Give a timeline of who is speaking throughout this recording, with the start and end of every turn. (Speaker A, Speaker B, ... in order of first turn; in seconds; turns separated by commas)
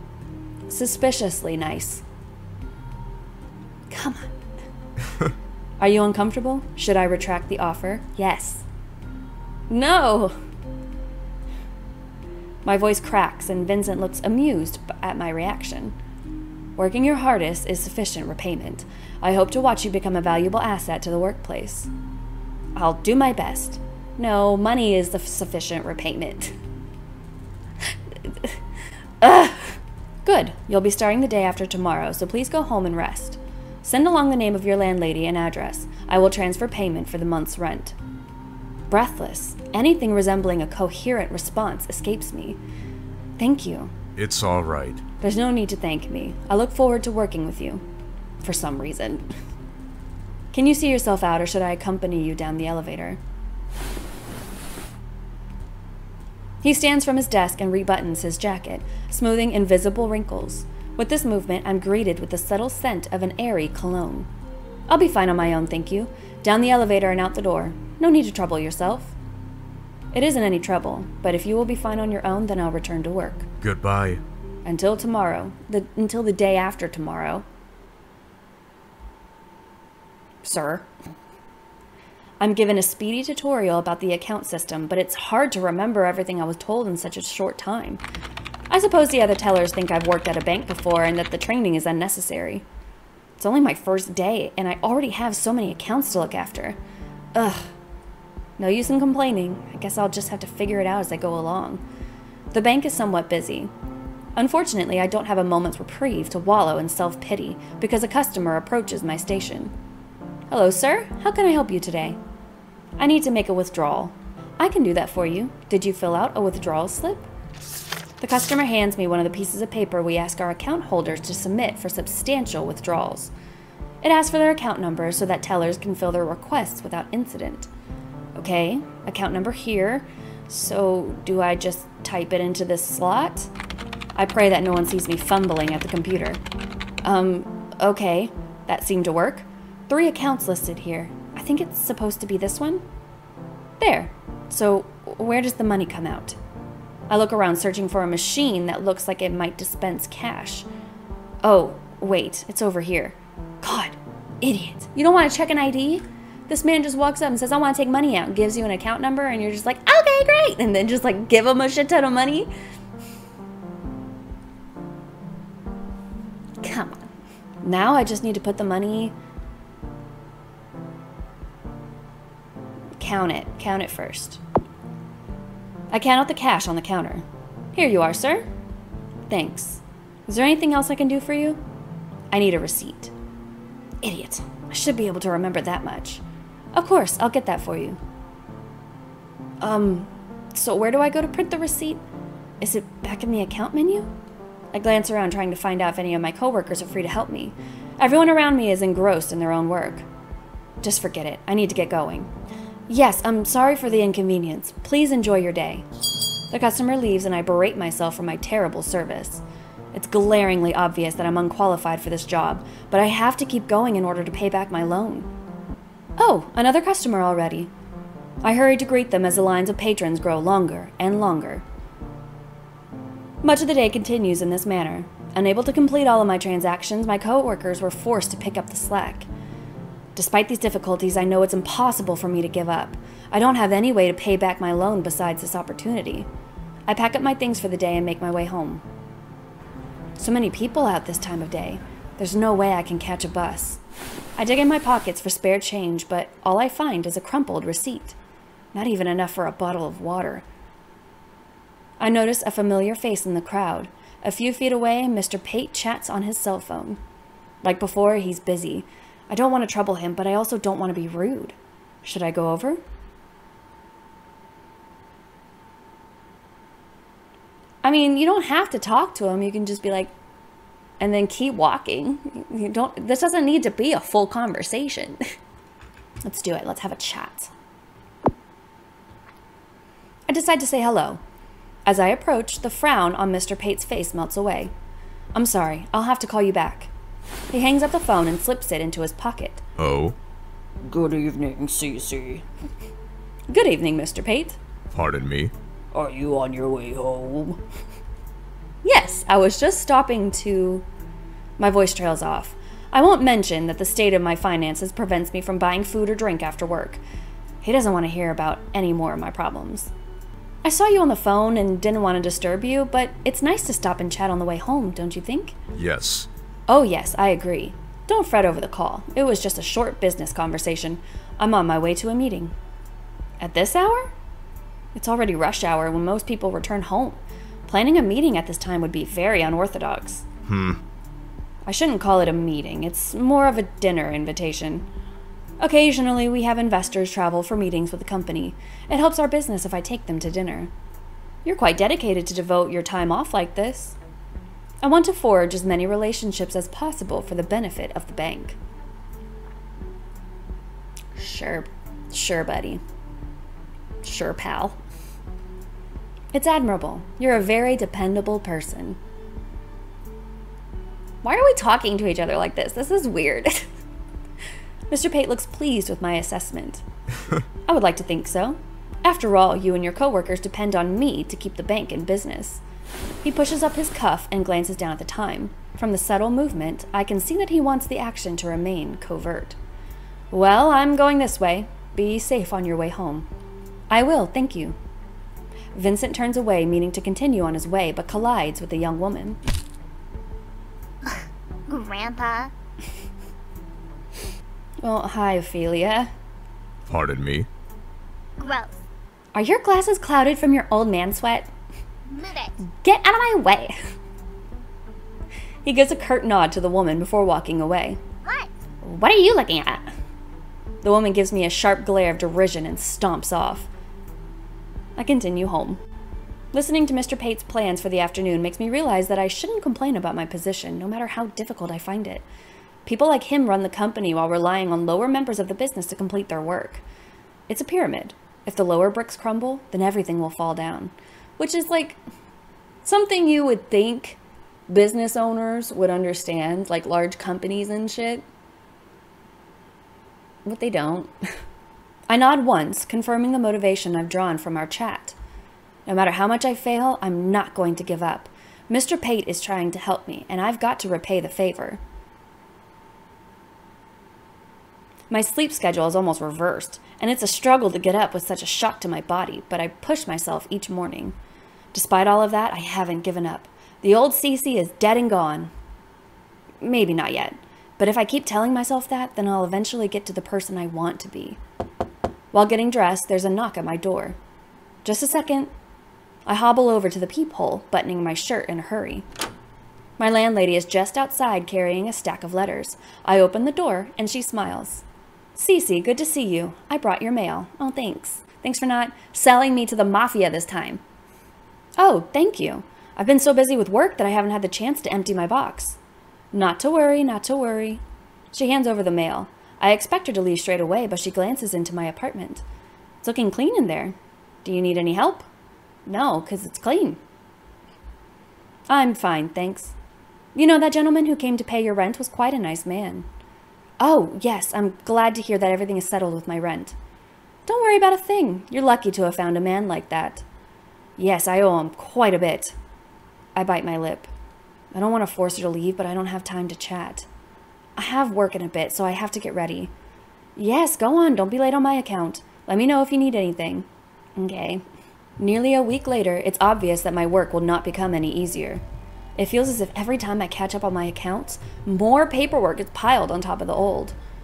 Speaker A: 0.7-2.0, Speaker A: 3.9-4.3, Speaker A: 5.8-8.7, Speaker A: 9.7-10.3, Speaker A: 12.7-15.9, Speaker A: 16.8-21.9, Speaker A: 22.8-26.5, Speaker A: 28.2-28.6, Speaker A: 29.2-38.0, Speaker A: 38.9-42.6, Speaker A: 43.4-43.9, Speaker B: 44.1-45.0, Speaker A: 45.2-47.8, Speaker A: 48.4-49.3, Speaker A: 50.5-53.2, Speaker A: 56.6-64.3, Speaker A: 64.9-69.1, Speaker A: 70.1-73.5, Speaker B: 73.6-74.2, Speaker A: 74.7-77.5, Speaker A: 80.4-80.9, Speaker A: 82.4-88.0, Speaker A: 88.7-92.6, Speaker A: 93.4-96.8, Speaker A: 97.3-97.7, Speaker A: 98.6-101.8, Speaker A: 102.5-103.7, Speaker A: 104.4-109.7, Speaker A: 110.5-112.2, Speaker A: 113.0-117.3, Speaker A: 118.2-123.3, Speaker A: 124.0-127.7, Speaker A: 128.3-133.5, Speaker A: 134.2-136.4, Speaker A: 137.0-142.8, Speaker A: 143.8-146.4, Speaker A: 147.1-150.7, Speaker A: 151.4-162.5, Speaker A: 166.6-167.1, Speaker A: 167.6-169.1, Speaker A: 173.0-174.4, Speaker A: 175.9-178.4, Speaker A: 179.3-181.6, Speaker A: 182.3-183.1, Speaker A: 184.0-186.2, Speaker A: 186.8-188.0, Speaker A: 189.6-192.0, Speaker A: 192.6-194.1, Speaker A: 194.7-200.1, Speaker A: 200.8-202.3, Speaker A: 202.9-205.8, Speaker A: 206.5-215.3, Speaker A: 216.2-217.7, Speaker A: 218.4-221.6, Speaker A: 223.4-229.3, Speaker A: 230.2-236.3, Speaker A: 236.9-238.8, Speaker A: 240.2-243.8, Speaker A: 244.4-248.2, Speaker A: 248.7-250.4, Speaker A: 252.0-257.0, Speaker A: 257.6-262.8, Speaker A: 267.8-270.1, Speaker A: 271.0-275.2, Speaker A: 276.2-277.5, Speaker A: 280.3-281.2, Speaker A: 281.9-284.7, Speaker A: 285.3-286.9, Speaker A: 287.5-289.6, Speaker B: 289.8-290.2, Speaker C: 290.9-292.4, Speaker A: 293.5-294.6, Speaker B: 294.9-295.5, Speaker C: 295.9-297.6, Speaker A: 298.8-300.9, Speaker A: 301.6-307.0, Speaker A: 307.6-309.9, Speaker A: 310.6-315.6, Speaker B: 315.8-316.3, Speaker A: 316.7-322.5, Speaker A: 323.4-324.1, Speaker A: 324.9-330.2, Speaker B: 330.5-330.8, Speaker A: 331.7-334.9, Speaker A: 335.6-340.7, Speaker A: 341.4-344.0, Speaker A: 344.8-348.6, Speaker A: 351.1-352.8, Speaker A: 354.0-354.8, Speaker A: 356.3-359.0, Speaker A: 361.2-363.7, Speaker A: 364.9-366.8, Speaker A: 367.7-372.6, Speaker A: 373.2-379.6, Speaker A: 380.3-383.3, Speaker A: 383.9-384.8, Speaker A: 385.7-389.4, Speaker D: 391.1-392.5, Speaker A: 394.8-396.1, Speaker B: 396.9-397.5, Speaker D: 398.4-398.8, Speaker A: 399.4-401.5, Speaker D: 402.1-402.6, Speaker A: 402.8-403.8, Speaker A: 405.6-408.0, Speaker D: 408.2-408.5, Speaker A: 408.8-409.9, Speaker A: 410.8-413.7, Speaker A: 415.0-415.8, Speaker A: 416.5-422.2, Speaker A: 422.9-426.8, Speaker A: 427.5-432.0, Speaker A: 432.8-438.2, Speaker A: 440.4-441.1, Speaker A: 442.1-445.2, Speaker A: 445.9-451.8, Speaker A: 455.1-461.2, Speaker A: 461.7-465.5, Speaker A: 466.6-471.4, Speaker A: 472.3-474.2, Speaker A: 474.9-475.5, Speaker A: 476.3-479.1, Speaker A: 480.0-484.8, Speaker A: 485.4-490.8, Speaker A: 491.8-495.8, Speaker A: 496.3-497.8, Speaker A: 498.3-502.4, Speaker A: 503.0-505.3, Speaker A: 505.9-507.0, Speaker A: 508.7-509.8, Speaker A: 510.4-513.1, Speaker A: 513.8-516.8, Speaker A: 517.5-520.2, Speaker A: 521.0-522.6, Speaker A: 523.4-524.1, Speaker A: 524.7-527.1, Speaker A: 527.8-529.7, Speaker A: 530.4-534.6, Speaker A: 535.2-538.6, Speaker A: 539.2-544.0